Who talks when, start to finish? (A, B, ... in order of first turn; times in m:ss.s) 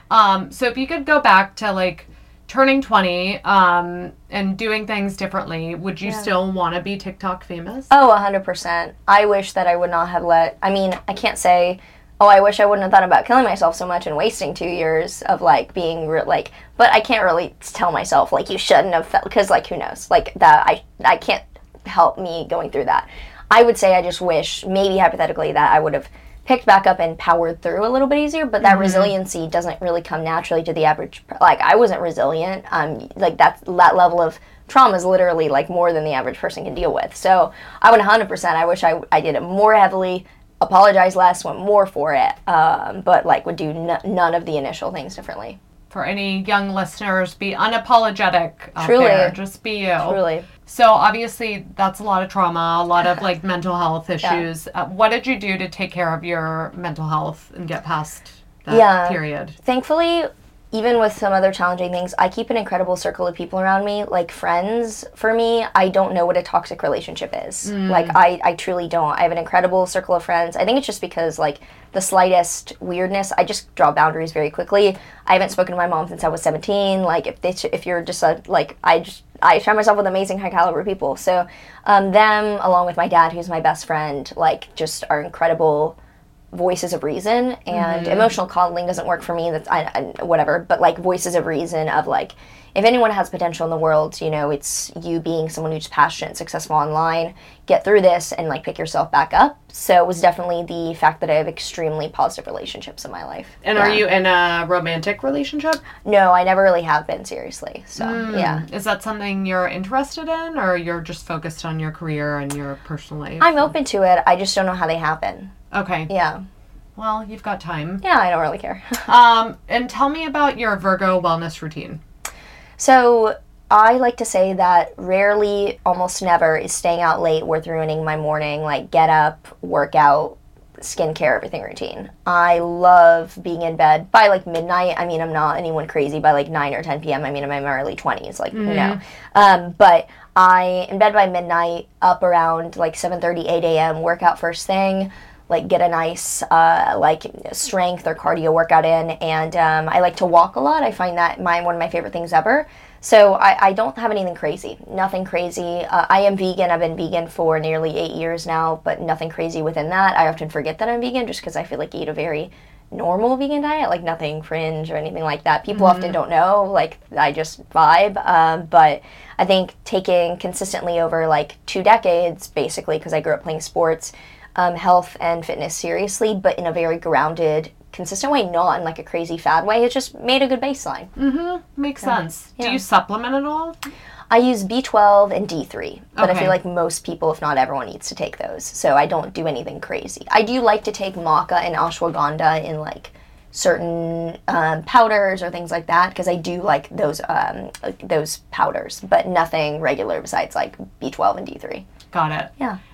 0:00.1-0:07.9 A
0:07.9-0:45.6 B
0:28.6-0:29.1 A
0:45.9-0:59.6 A
0:48.8-0:49.4 B
0:50.0-0:50.5 B
0:58.7-1:26.0 B
1:07.6-1:08.2 A
1:26.5-1:44.0 B
1:27.7-1:28.3 A
1:43.6-1:45.8 A
1:46.0-1:48.6 B
1:48.0-1:53.7 A
1:53.4-1:55.5 B
1:55.7-1:56.1 A
1:56.1-1:56.4 B
1:57.0-1:58.0 A
1:58.0-1:59.1 B
1:59.0-2:02.0 A
2:02.8-3:01.1 B
2:18.5-2:19.0 A
2:45.7-2:46.2 A
3:01.2-3:03.8 A
3:02.0-3:02.8 B
3:04.3-3:21.9 B
3:06.2-3:06.6 A
3:22.1-3:22.5 A